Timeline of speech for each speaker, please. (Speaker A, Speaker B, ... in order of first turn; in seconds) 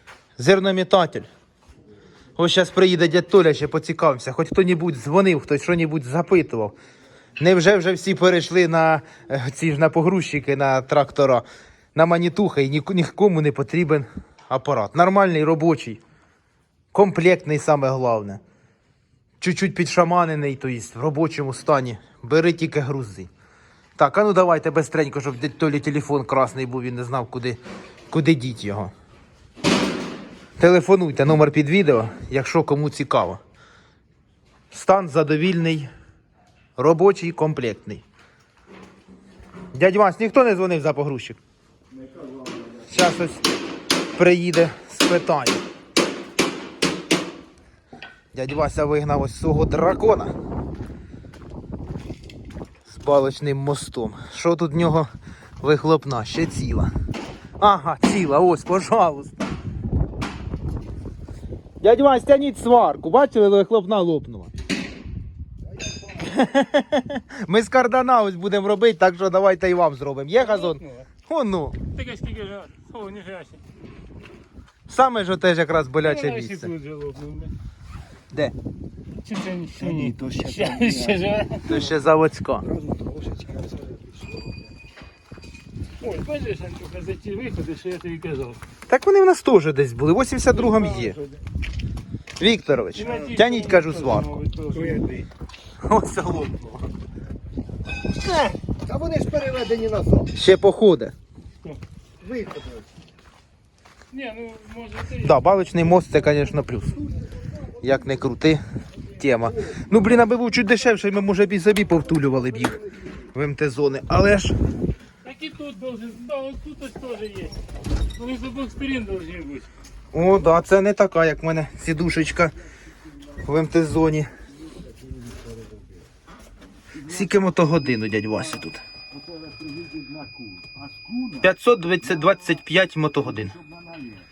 Speaker A: 0.4-1.3, 2.4-6.8, 7.4-16.0, 16.9-18.4, 19.4-23.3, 24.0-27.6, 28.1-28.9, 30.6-33.4, 34.7-35.9, 36.8-38.0, 39.7-41.4, 42.9-43.4, 44.1-45.6, 48.3-50.3, 52.9-55.1, 55.6-56.9, 57.6-59.4, 61.8-64.5, 66.2-71.8, 74.9-76.7, 81.6-82.7, 88.9-91.2, 92.4-94.4, 95.8-96.7, 100.3-101.1, 105.0-107.0, 107.8-108.6, 109.2-112.8, 113.3-114.5, 120.1-122.5, 123.4-124.3, 127.0-128.8, 131.3-133.6
Speaker B: 72.0-73.6, 76.7-77.5, 79.2-80.1, 80.7-81.6, 86.0-88.6, 94.4-95.0, 104.1-105.0, 115.2-117.5, 118.1-119.7
Speaker C: 79.8-81.3, 82.8-84.0, 98.3-100.3, 102.2-102.7, 129.7-130.3